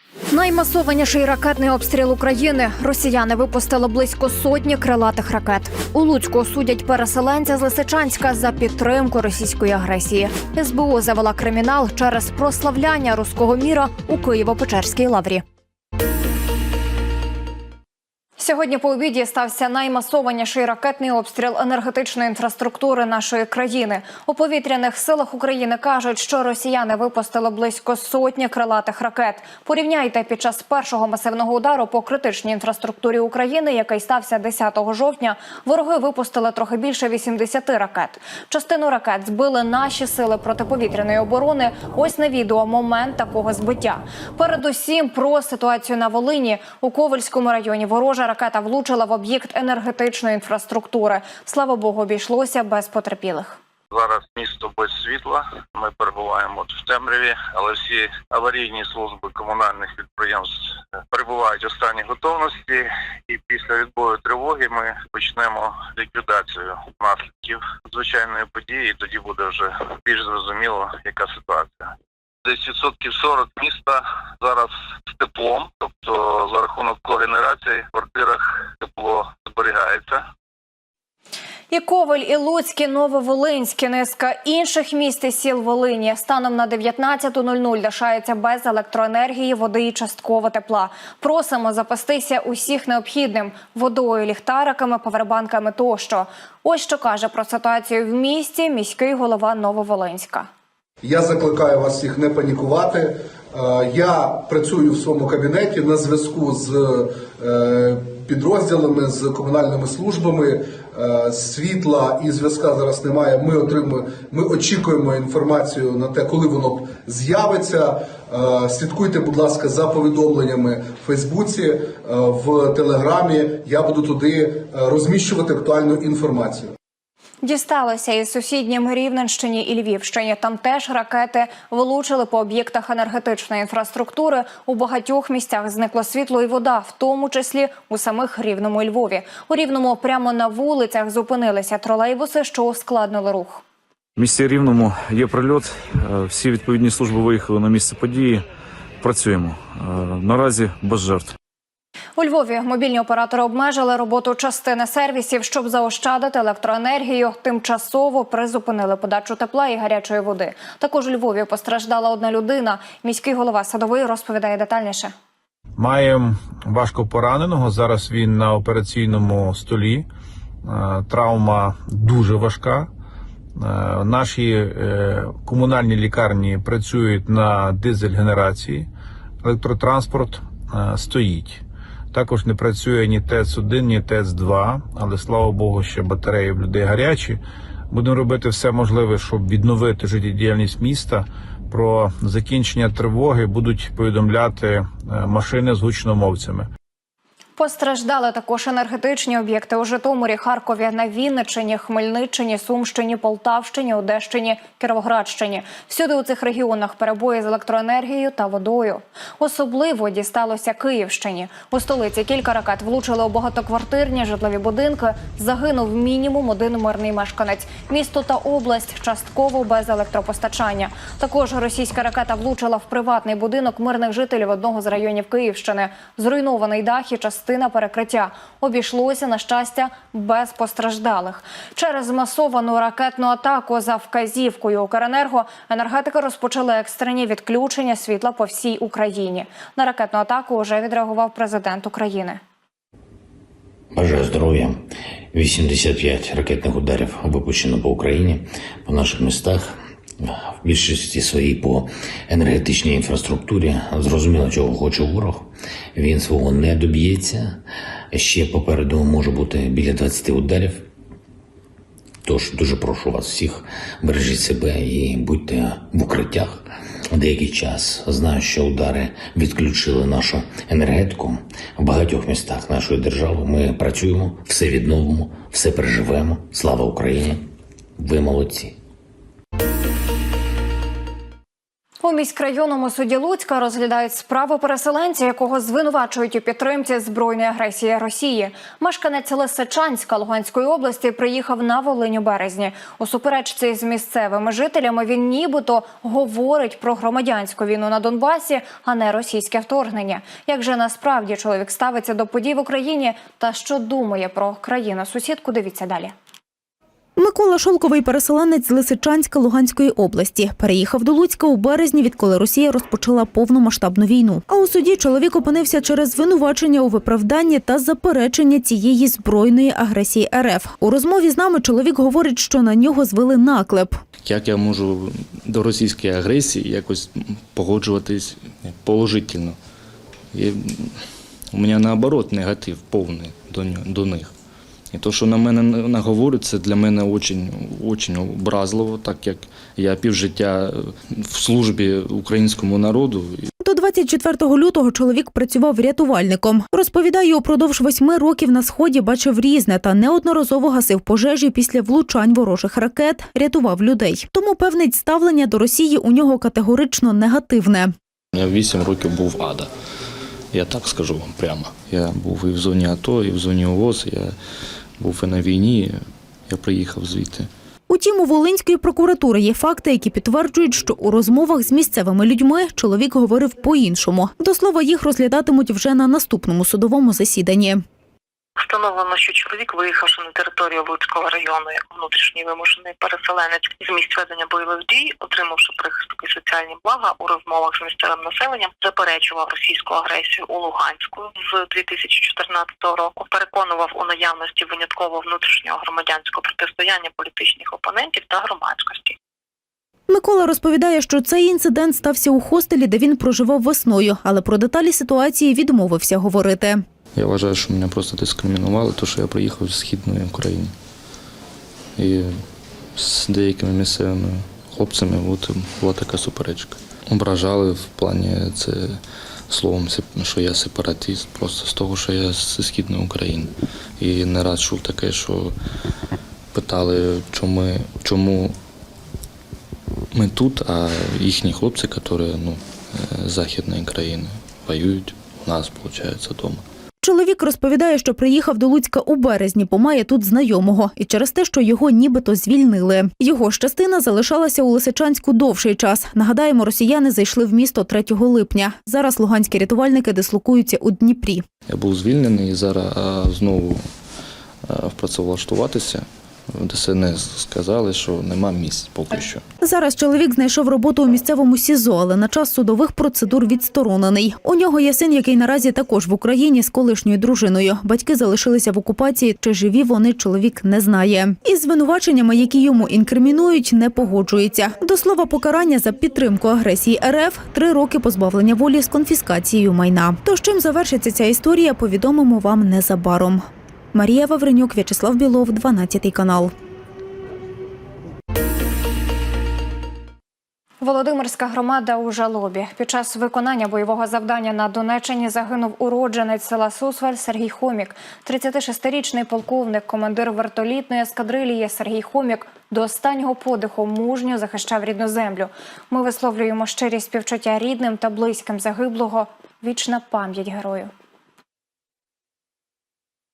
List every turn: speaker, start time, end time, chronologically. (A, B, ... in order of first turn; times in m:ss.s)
0:00.3-0:15.4 A
0:18.4-0:53.6 A
0:53.9-1:00.6 B
1:01.1-1:11.9 B
1:12.4-1:20.2 B
1:21.7-1:40.5 A
1:41.0-2:06.7 C
2:07.4-2:23.6 A
2:24.2-2:28.4 D
2:29.0-2:31.4 D
2:32.2-2:45.1 A
2:45.8-2:50.1 E
2:50.6-2:52.9 E
2:53.6-2:58.9 E
2:59.4-3:01.6 E
3:02.1-3:07.4 E
3:07.9-3:16.7 E
3:17.6-4:02.4 A
4:03.9-4:17.6 F
4:18.1-4:20.9 F
4:22.2-4:37.4 F
4:38.0-4:38.8 F
4:42.0-5:06.1 A
5:07.2-5:24.0 G
5:24.2-5:29.6 H
5:30.3-5:34.3 H
5:34.9-5:43.5 H
5:43.6-5:57.9 G
5:58.3-5:59.7 H
6:00.5-6:04.4 H
6:05.0-6:07.5 H
6:07.9-6:17.8 G
6:18.6-6:39.2 I
6:40.1-6:46.8 G
6:47.1-6:50.7 H
6:52.0-6:52.4 H
6:52.9-7:05.6 H
7:06.5-7:08.6 H
7:10.1-7:16.6 H
7:17.0-7:31.4 G
7:31.7-7:33.8 H
7:34.6-7:39.4 H
7:39.6-8:06.5 G
8:10.8-8:30.9 A